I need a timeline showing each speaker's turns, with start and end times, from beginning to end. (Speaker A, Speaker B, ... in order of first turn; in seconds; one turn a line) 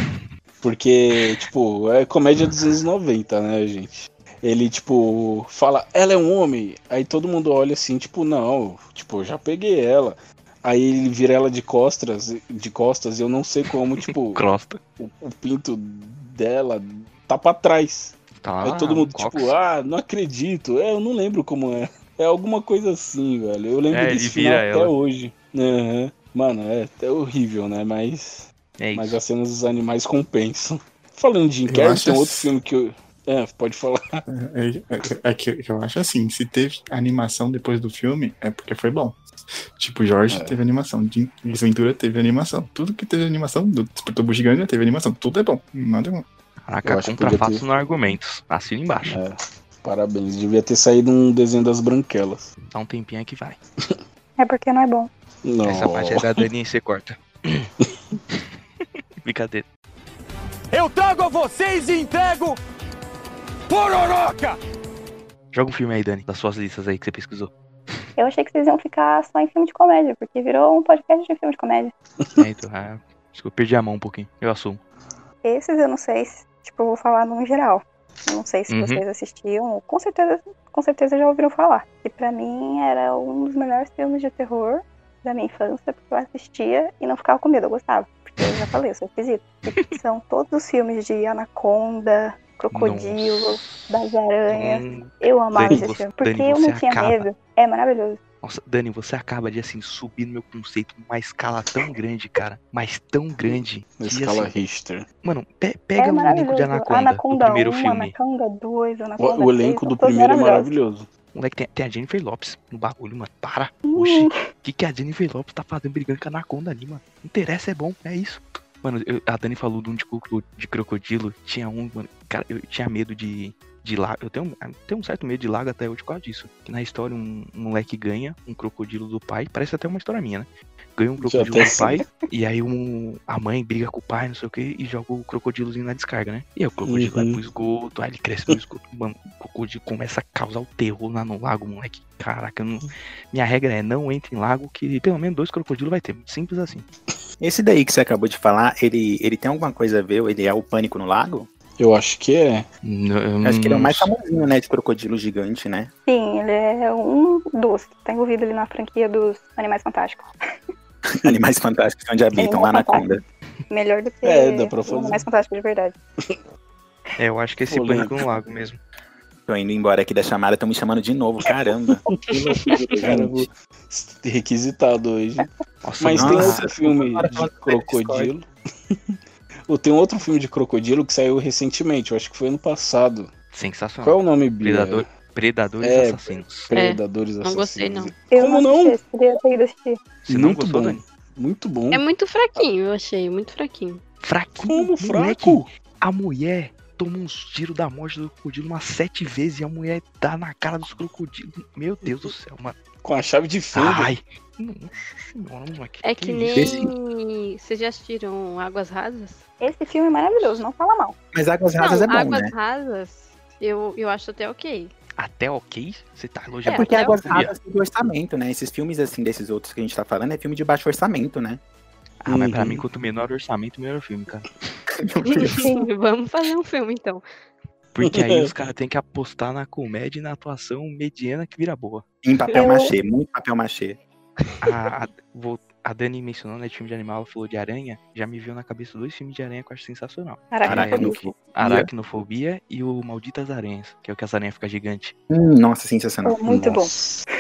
Speaker A: 0.6-14.4
Speaker B: 14.1-14.8
Speaker A: 15.0-34.2
Speaker B: 18.4-19.5
Speaker B: 23.9-24.9
Speaker B: 28.8-29.2
Speaker C: 31.7-32.5
Speaker C: 34.3-39.2
Speaker C: 39.8-46.2
Speaker A: 40.3-40.6
Speaker B: 46.6-49.2
Speaker A: 46.8-47.6
Speaker A: 49.0-52.5
Speaker B: 52.7-53.6
Speaker D: 54.4-55.1
Speaker A: 55.4-56.4
Speaker B: 55.6-58.4
Speaker B: 59.2-59.6
Speaker E: 60.7-62.6
Speaker E: 63.7-64.6
Speaker B: 65.5-67.5
Speaker D: 68.2-71.9
Speaker B: 72.3-74.8
Speaker D: 75.4-98.2
Speaker B: 78.7-79.0
Speaker B: 92.7-97.2
Speaker A: 95.6-95.8
Speaker B: 98.4-104.6
Speaker A: 103.4-105.0
Speaker B: 105.2-108.1
Speaker D: 106.0-110.7
Speaker A: 109.2-111.1
Speaker B: 111.3-146.9
Speaker D: 113.8-114.4
Speaker A: 131.2-132.1
Speaker A: 136.8-137.4
Speaker F: 147.4-151.5
Speaker A: 151.8-152.7
Speaker B: 152.8-154.1
Speaker F: 153.4-155.9
Speaker D: 156.1-160.3
Speaker F: 161.1-163.2
Speaker D: 162.3-163.0
Speaker D: 163.7-165.9
Speaker A: 164.2-165.2
Speaker B: 167.2-168.8
Speaker A: 167.7-168.2
Speaker F: 169.5-173.5
Speaker A: 173.0-175.5
Speaker B: 175.8-176.6
Speaker A: 176.0-183.3
Speaker F: 176.2-178.3
Speaker B: 183.5-186.7
Speaker A: 184.0-185.1
Speaker A: 185.8-189.0
Speaker G: 186.7-188.1
Speaker D: 188.3-190.0
Speaker B: 190.3-191.0
Speaker A: 190.3-192.0
Speaker G: 191.9-194.0
Speaker B: 194.2-202.8
Speaker A: 194.6-195.7
Speaker A: 203.0-204.1
Speaker B: 203.7-206.8
Speaker G: 206.0-209.4
Speaker F: 206.5-206.9
Speaker D: 209.6-211.1
Speaker F: 211.3-212.5
Speaker G: 211.8-214.9
Speaker B: 215.2-217.5
Speaker G: 216.6-217.3
Speaker F: 216.7-221.6
Speaker B: 222.2-224.5
Speaker A: 222.3-222.8
Speaker G: 225.2-227.2
Speaker D: 225.5-225.9
Speaker B: 227.9-232.0
Speaker A: 228.0-228.5
Speaker F: 232.2-234.0
Speaker D: 232.5-232.9
Speaker B: 234.6-245.1
Speaker D: 240.5-241.2
Speaker F: 240.6-241.9
Speaker F: 245.3-246.5
Speaker D: 246.2-246.9
Speaker A: 246.5-247.2